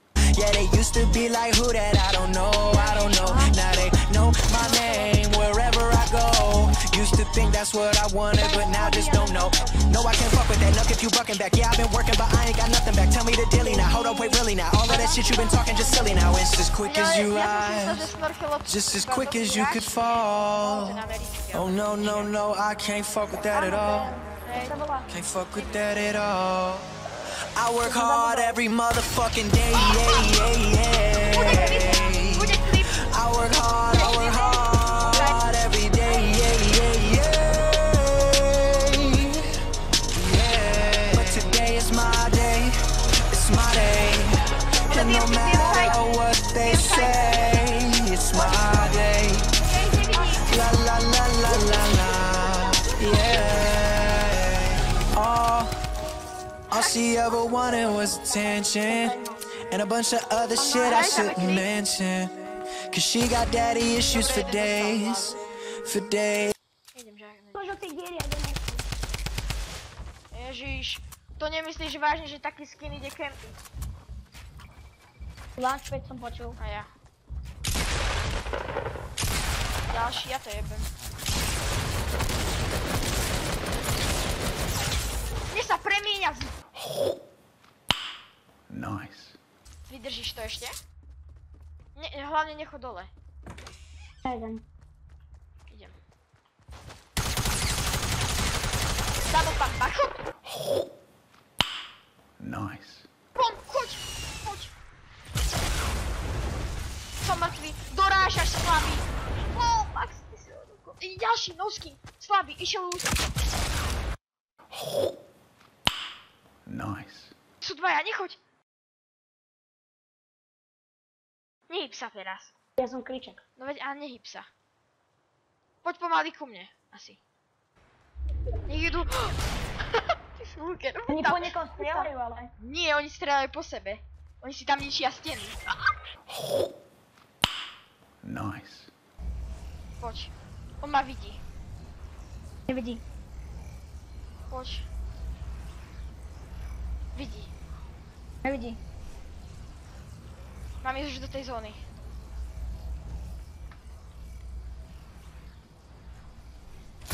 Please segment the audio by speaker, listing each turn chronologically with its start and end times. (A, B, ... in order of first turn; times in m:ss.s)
0:00.3-0:18.1 A
0:02.7-0:03.5 B
0:04.6-0:05.1 B
0:08.4-0:09.8 C
0:13.6-0:16.4 C
0:16.8-0:22.3 B
0:18.6-0:21.0 A
0:21.5-0:24.2 A
0:23.4-0:25.1 C
0:24.4-0:24.8 B
0:25.1-0:26.9 A
0:27.5-0:32.5 A
0:27.8-0:28.6 C
0:29.8-0:30.5 B
0:31.3-0:33.0 B
0:33.0-0:39.5 A
0:33.8-0:35.4 B
0:40.1-0:42.7 A
0:43.3-0:44.3 A
0:44.9-0:50.6 B
0:44.9-0:49.5 A
0:50.4-0:55.7 A
0:51.8-0:53.8 B
0:56.7-1:02.3 A
0:58.0-0:59.5 C
1:00.6-1:01.4 C
1:00.8-1:01.7 B
1:02.9-1:06.5 A
1:04.1-1:05.4 B
1:06.9-1:07.8 B
1:07.5-1:08.8 C
1:10.3-1:13.6 B
1:15.6-1:16.6 C
1:16.6-1:16.9 B
1:19.9-1:20.9 B
1:25.5-1:26.5 B
1:28.7-1:29.4 D
1:29.9-1:30.7 B
1:32.0-1:33.1 B
1:34.2-1:34.6 C
1:35.7-1:35.9 B
1:39.3-1:40.2 B
1:42.4-1:43.0 D
1:43.3-1:44.7 B
1:47.2-1:53.2 B
1:56.6-1:57.3 D
1:57.6-1:58.4 B
2:01.7-2:02.5 B
2:02.8-2:03.4 C
2:03.6-2:04.5 B
2:05.8-2:07.2 B
2:08.7-2:09.4 B
2:10.3-2:15.9 B
2:11.1-2:12.5 C
2:18.2-2:18.9 D
2:20.0-2:21.4 B
2:22.7-2:23.0 C
2:24.5-2:24.9 B
2:27.1-2:27.5 B
2:28.4-2:28.8 C
2:30.8-2:31.8 B